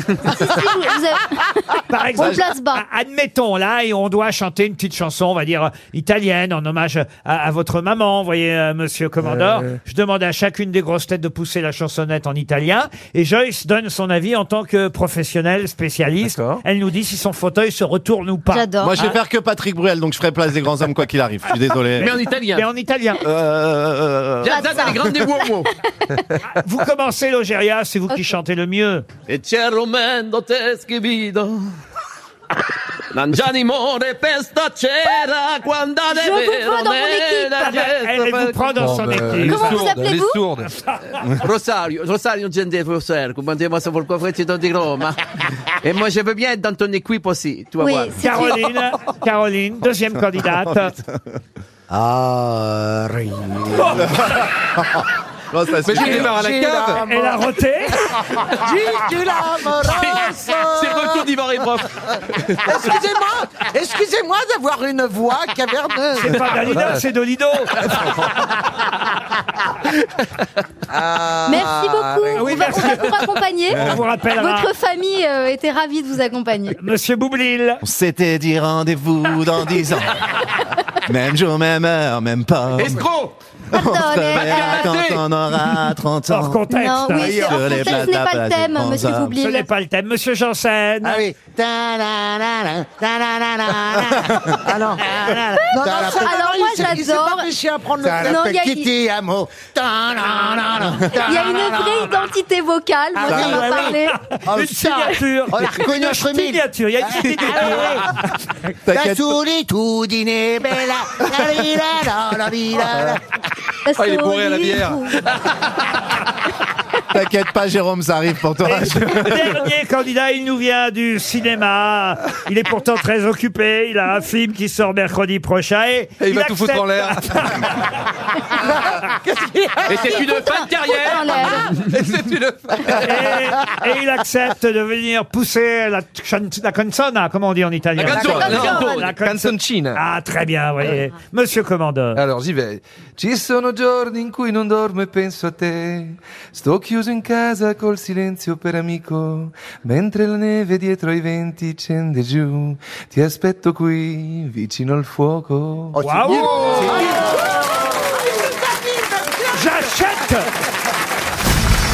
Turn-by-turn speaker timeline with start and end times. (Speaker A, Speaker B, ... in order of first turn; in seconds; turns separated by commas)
Speaker A: 0.3-2.8, Speaker B: 1.9-18.7, Speaker C: 16.2-16.6, Speaker A: 18.5-19.2, Speaker D: 18.8-22.1, Speaker E: 22.0-22.7, Speaker B: 22.0-23.2, Speaker D: 23.2-25.0, Speaker E: 24.4-25.7, Speaker A: 24.5-25.0, Speaker B: 26.6-29.1, Speaker E: 29.3-31.7, Speaker E: 33.1-38.8, Speaker A: 36.1-37.8, Speaker B: 37.6-39.9, Speaker C: 38.8-40.7, Speaker A: 39.4-40.5, Speaker E: 41.3-48.4, Speaker A: 47.8-48.7, Speaker B: 48.2-51.0, Speaker F: 51.9-54.0, Speaker B: 53.8-54.1, Speaker D: 54.0-54.5, Speaker D: 55.5-56.4, Speaker C: 55.8-57.0, Speaker G: 55.9-57.5, Speaker B: 57.0-58.2, Speaker G: 58.3-61.3, Speaker E: 59.8-62.8, Speaker G: 62.6-66.5, Speaker B: 66.2-68.1, Speaker C: 66.7-67.0, Speaker G: 70.9-72.8, Speaker A: 71.5-76.8, Speaker B: 72.4-74.7, Speaker B: 76.8-77.8, Speaker D: 77.8-80.2, Speaker D: 81.0-83.0, Speaker E: 82.8-83.3, Speaker A: 83.7-84.9, Speaker D: 83.7-89.4, Speaker E: 84.3-85.2, Speaker B: 86.3-87.5, Speaker A: 86.7-89.7, Speaker B: 89.4-91.2, Speaker F: 91.0-96.4, Speaker G: 94.6-98.4, Speaker A: 95.6-97.5, Speaker F: 98.0-102.3, Speaker A: 98.2-98.9, Speaker A: 101.2-104.3, Speaker F: 103.2-108.0, Speaker B: 103.2-108.4, Speaker D: 108.9-109.4, Speaker F: 108.9-113.2, Speaker A: 113.9-115.2, Speaker C: 114.0-115.2, Speaker D: 117.1-119.6, Speaker B: 118.6-127.9, Speaker C: 126.2-127.6, Speaker G: 128.6-130.2, Speaker E: 129.9-132.3, Speaker A: 130.3-131.8, Speaker C: 131.9-133.0, Speaker B: 132.9-142.2, Speaker E: 138.0-139.1, Speaker C: 138.0-140.0, Speaker A: 138.2-139.1, Speaker C: 142.2-156.0, Speaker F: 155.9-158.1, Speaker B: 156.0-157.3, Speaker G: 156.6-160.3, Speaker B: 159.5-160.5